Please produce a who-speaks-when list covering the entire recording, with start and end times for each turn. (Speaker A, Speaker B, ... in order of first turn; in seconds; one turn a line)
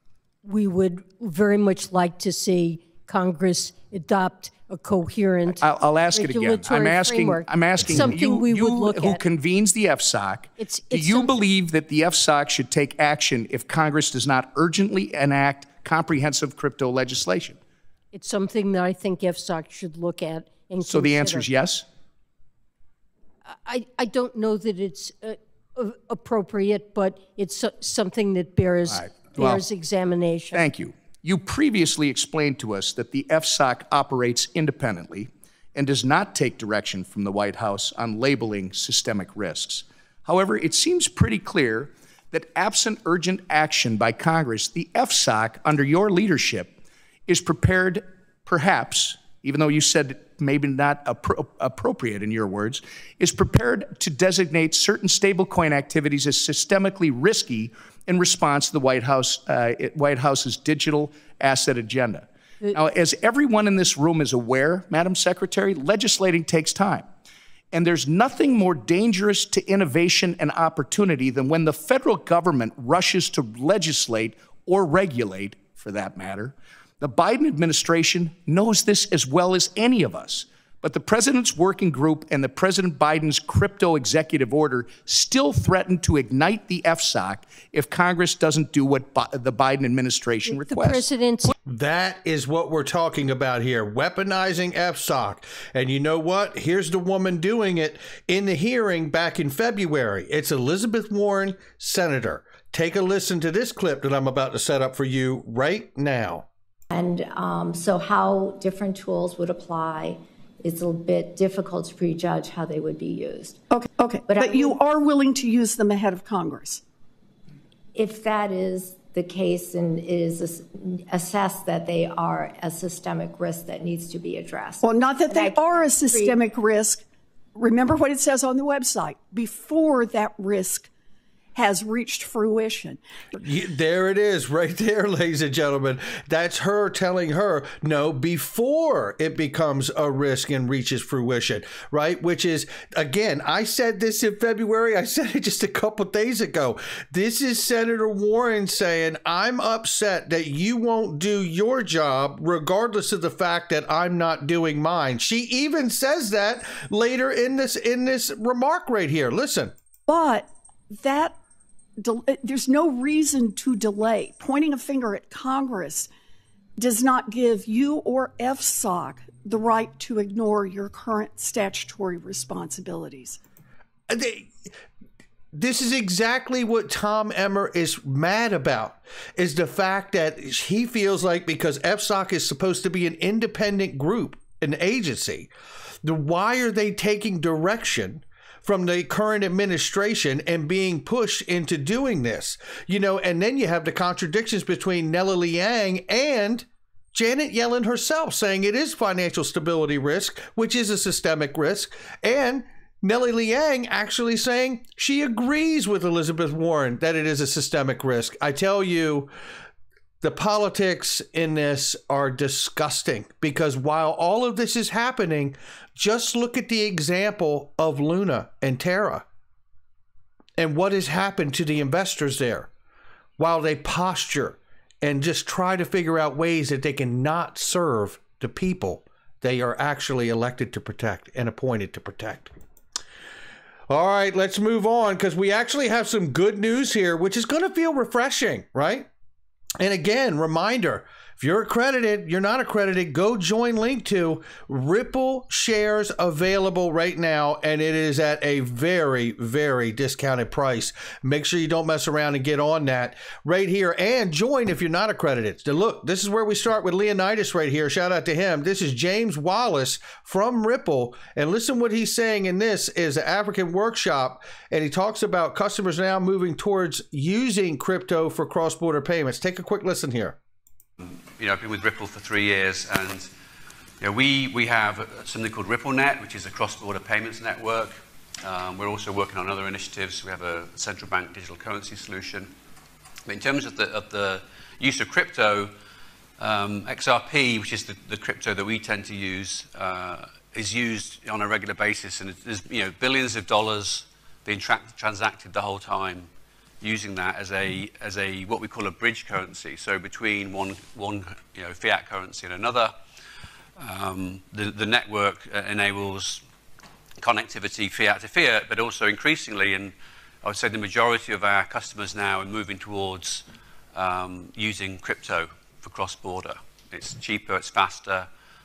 Speaker A: 0.4-9.2
Speaker B: 5.6-17.6
Speaker A: 10.6-11.4
Speaker A: 18.1-21.5
Speaker B: 20.9-21.9
Speaker A: 23.5-30.6
Speaker B: 28.9-29.6
Speaker B: 30.5-46.7
Speaker B: 47.3-67.1
Speaker B: 67.7-91.1
Speaker A: 90.5-91.5
Speaker C: 91.7-106.5
Speaker D: 106.9-113.6
Speaker E: 113.7-116.8
Speaker D: 114.2-114.8
Speaker D: 117.9-126.5
Speaker E: 124.8-127.0
Speaker E: 127.5-130.9
Speaker E: 131.6-133.0
Speaker C: 133.4-159.7
Speaker E: 160.1-161.4
Speaker E: 162.0-166.1
Speaker E: 166.8-173.4
Speaker C: 174.1-174.5
Speaker C: 175.5-185.5
Speaker C: 186.0-209.3
Speaker C: 210.2-219.2
Speaker C: 220.6-222.7
Speaker C: 223.4-232.5
Speaker C: 233.9-239.1
Speaker C: 239.8-270.4
Speaker F: 271.0-273.3
Speaker F: 274.0-282.5
Speaker F: 283.3-285.7
Speaker F: 286.4-296.3
Speaker F: 296.8-302.9
Speaker F: 303.8-306.4
Speaker F: 307.2-318.3